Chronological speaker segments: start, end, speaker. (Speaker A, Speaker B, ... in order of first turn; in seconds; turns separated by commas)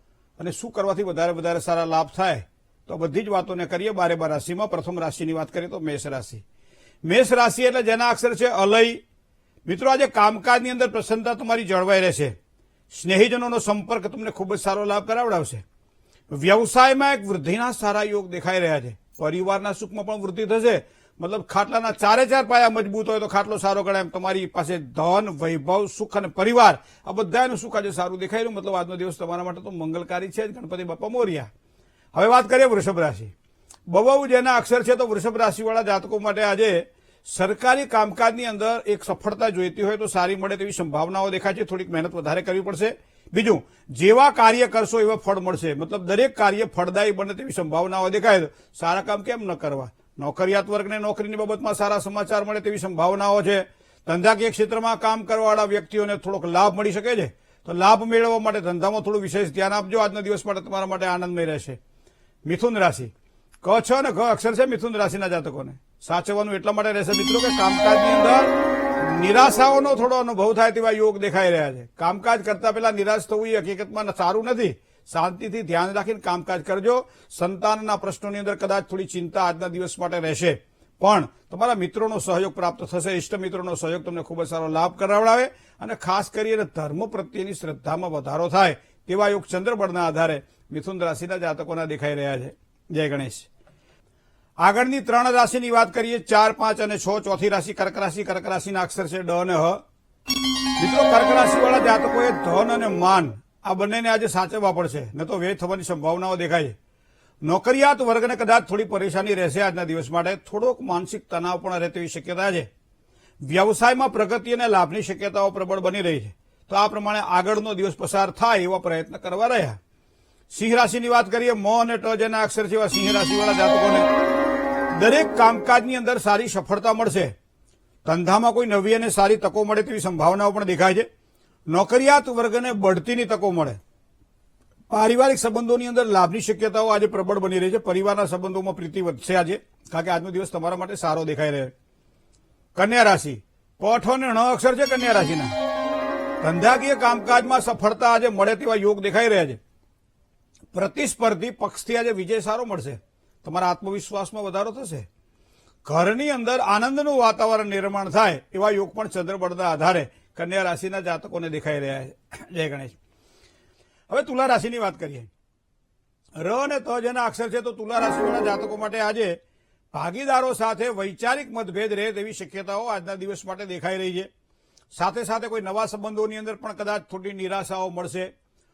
Speaker A: 0.4-6.4, Speaker A: 7.0-9.0, Speaker A: 9.7-12.3, Speaker A: 12.9-15.6, Speaker A: 16.3-31.5, Speaker A: 32.1-33.3, Speaker A: 33.9-61.8, Speaker A: 62.5-63.1, Speaker A: 63.6-93.5, Speaker A: 94.6-99.8, Speaker A: 100.8-106.8, Speaker A: 107.4-112.7, Speaker A: 113.4-119.8, Speaker A: 120.5-124.1, Speaker A: 124.9-127.3, Speaker A: 128.1-131.1, Speaker A: 131.7-133.8, Speaker A: 134.9-141.7, Speaker A: 142.8-145.5, Speaker A: 146.4-149.6, Speaker A: 150.7-155.1, Speaker A: 155.8-163.0, Speaker A: 164.1-165.3, Speaker A: 166.4-169.4, Speaker A: 169.9-174.3, Speaker A: 174.9-178.3